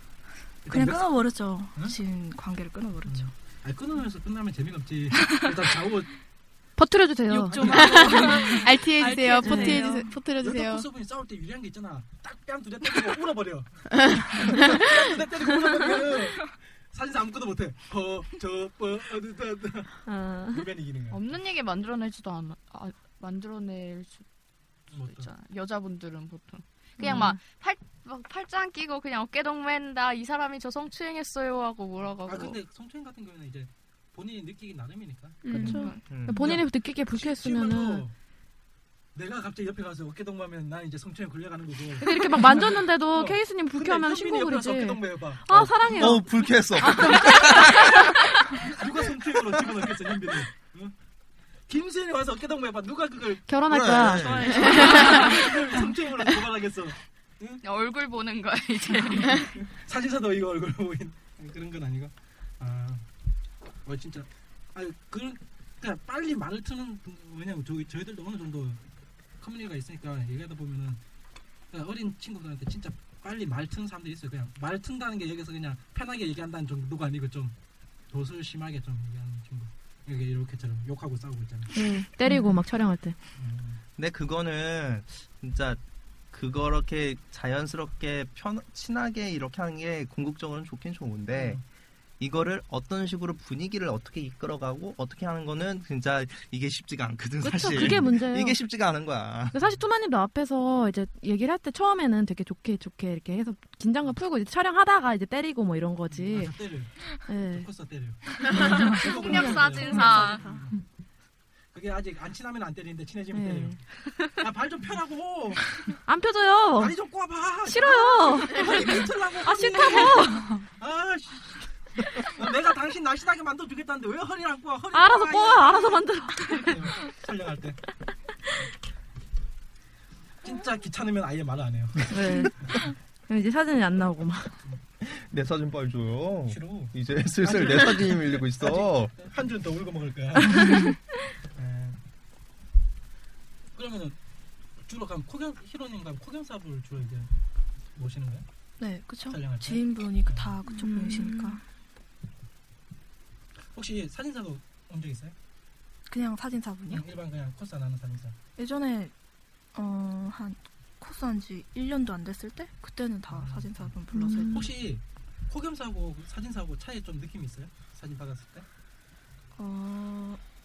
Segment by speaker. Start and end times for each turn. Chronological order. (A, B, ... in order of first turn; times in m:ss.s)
0:00.6-0:01.1 A
0:00.6-0:03.3 B
0:03.0-0:06.1 A
0:06.8-0:07.8 C
0:07.3-0:08.7 A
0:07.5-0:10.1 B
0:07.6-0:10.8 D
0:09.4-0:09.8 C
0:10.4-0:21.3 A
0:14.0-0:14.9 D
0:20.0-0:20.7 C
0:21.1-0:24.2 E
0:24.9-0:25.3 A
0:25.1-0:32.6 E
0:27.0-0:27.4 C
0:32.2-0:35.8 A
0:35.4-0:35.9 D
0:35.5-0:38.0 C
0:35.6-0:36.0 E
0:36.1-0:36.6 F
0:36.4-0:38.1 A
0:39.1-0:45.4 A
0:42.0-0:48.6 C
0:45.5-0:48.2 F
0:47.1-0:47.7 A
0:48.6-0:50.9 A
0:51.7-0:53.5 A
0:53.5-0:55.7 C
0:53.7-0:54.6 F
0:54.2-0:55.5 B
0:54.2-0:57.6 A
0:57.6-0:59.5 E
0:59.6-1:03.0 A
1:03.8-1:08.8 A
1:09.4-1:11.0 A
1:11.7-1:17.5 A
1:18.1-1:21.7 A
1:21.7-1:23.2 C
1:21.8-1:22.1 D
1:23.4-1:23.8 A
1:24.0-1:25.8 F
1:26.3-1:31.6 F
1:31.3-1:31.6 A
1:32.2-1:39.6 F
1:37.4-1:38.6 C
1:39.5-1:46.6 C
1:46.1-1:50.8 A
1:47.2-1:47.7 C
1:48.6-1:50.4 E
1:48.8-1:49.9 C
1:49.2-1:50.6 B
1:51.7-1:55.8 A
1:53.3-1:53.9 C
1:56.0-1:57.0 C
1:56.8-2:00.2 A
1:57.6-2:00.4 C
1:57.9-1:58.6 B
1:59.5-2:00.4 B
2:00.8-2:07.8 A
2:04.9-2:06.7 C
2:10.4-2:12.5 A
2:12.1-2:14.5 C
2:15.0-2:19.1 F
2:16.5-2:20.8 A
2:21.5-2:22.0 A
2:23.7-2:24.2 A
2:24.8-2:27.3 A
2:27.9-2:28.4 A
2:28.8-2:31.6 B
2:29.3-2:30.5 A
2:30.8-2:31.6 C
2:33.7-2:35.3 A
2:36.1-2:37.1 B
2:36.8-2:38.4 A
2:38.6-2:39.1 B
2:39.7-2:44.7 B
2:43.3-2:43.9 A
2:44.1-2:44.6 C
2:44.5-2:48.6 A
2:49.6-2:50.4 B